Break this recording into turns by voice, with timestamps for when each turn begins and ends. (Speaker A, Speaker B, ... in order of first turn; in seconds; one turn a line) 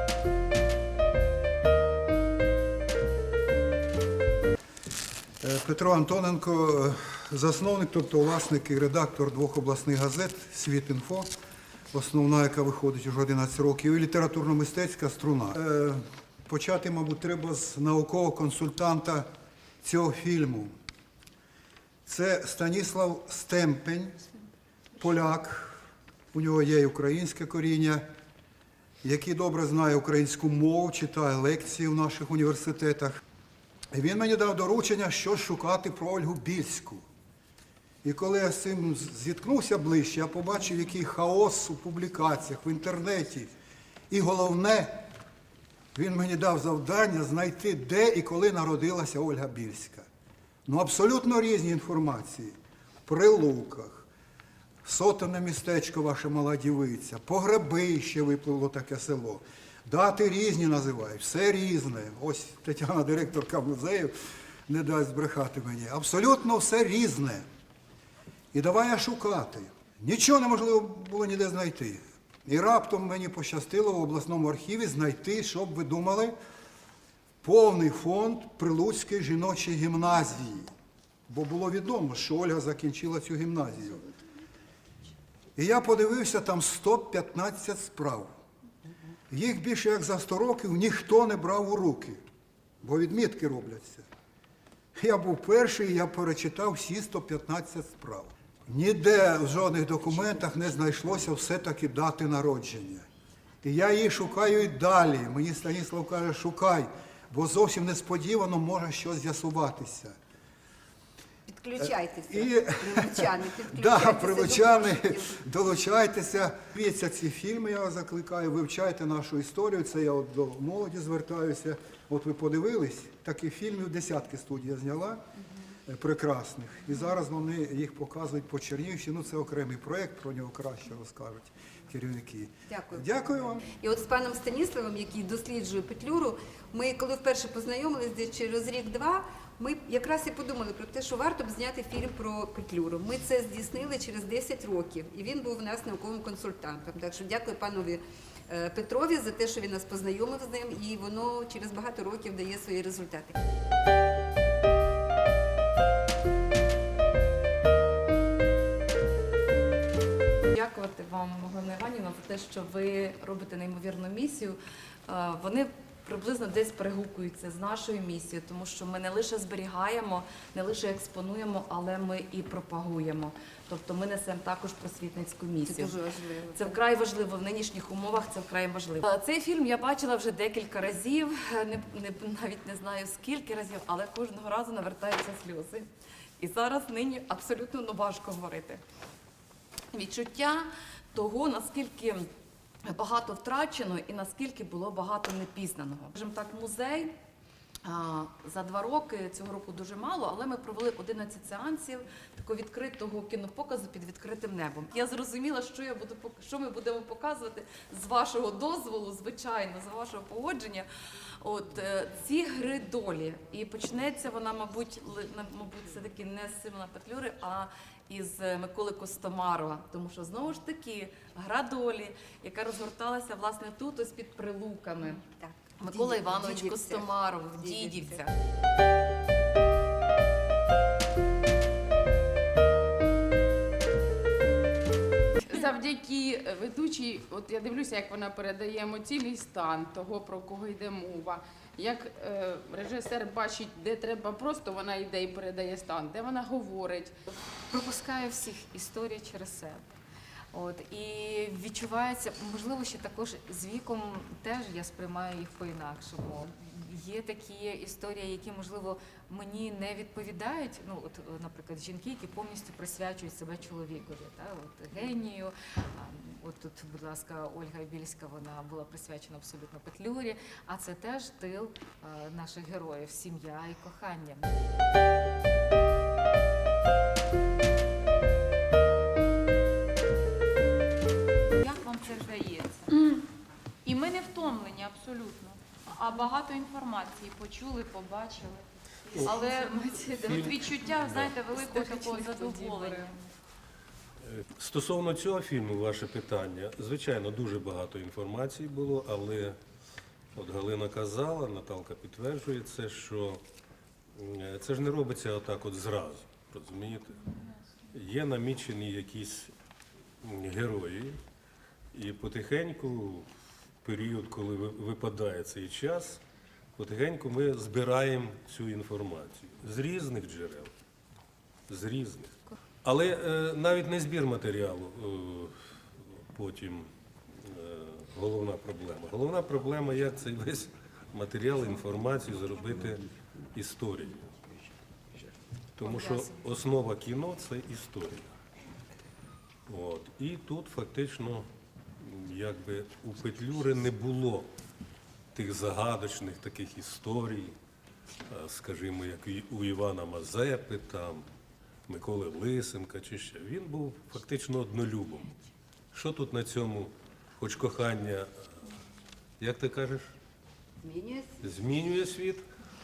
Speaker A: 5.4-11.3
Speaker A: 11.9-19.3
Speaker A: 19.8-20.7
Speaker A: 22.1-24.2
Speaker A: 24.9-25.8
Speaker A: 26.3-28.1
Speaker A: 29.0-33.2
Speaker A: 33.9-37.0
Speaker A: 38.0-43.5
Speaker A: 44.1-45.0
Speaker A: 45.9-50.0
Speaker A: 50.6-52.5
Speaker A: 53.1-54.1
Speaker A: 54.8-64.1
Speaker A: 64.7-67.4
Speaker A: 68.5-76.3
Speaker A: 77.4-80.7
Speaker A: 81.3-84.0
Speaker A: 85.5-88.3
Speaker A: 89.3-92.2
Speaker A: 92.8-94.0
Speaker A: 95.0-103.1
Speaker A: 103.6-110.1
Speaker B: 111.5-115.4
Speaker A: 112.3-125.2
Speaker A: 125.9-133.6
Speaker B: 132.7-153.3
Speaker C: 160.5-175.9
Speaker B: 175.6-176.8
Speaker C: 176.5-185.9
Speaker C: 186.4-188.8
Speaker C: 189.9-192.3
Speaker C: 192.9-197.1
Speaker C: 197.8-210.9
Speaker C: 211.4-225.2
Speaker B: 225.0-228.2
Speaker C: 225.8-228.3
Speaker D: 235.4-247.1
Speaker E: 247.7-249.8
Speaker E: 250.5-274.5
Speaker F: 281.6-283.2
Speaker F: 283.8-293.1
Speaker E: 289.1-290.6
Speaker G: 290.2-291.4
Speaker E: 291.5-293.0
Speaker G: 294.4-299.6
Speaker G: 300.4-303.4
Speaker G: 304.1-307.3
Speaker G: 307.9-309.5
Speaker G: 310.2-311.2
Speaker G: 311.9-313.3
Speaker G: 313.8-316.2
Speaker G: 316.8-320.7
Speaker G: 321.7-325.5
Speaker G: 326.3-334.3
Speaker G: 335.8-338.3
Speaker E: 335.8-336.2
Speaker G: 339.7-341.5
Speaker G: 342.0-344.5
Speaker G: 345.3-347.6
Speaker G: 348.3-351.2
Speaker G: 351.9-355.3
Speaker G: 355.9-358.3
Speaker G: 359.4-360.1
Speaker B: 360.8-361.6
Speaker G: 361.4-362.4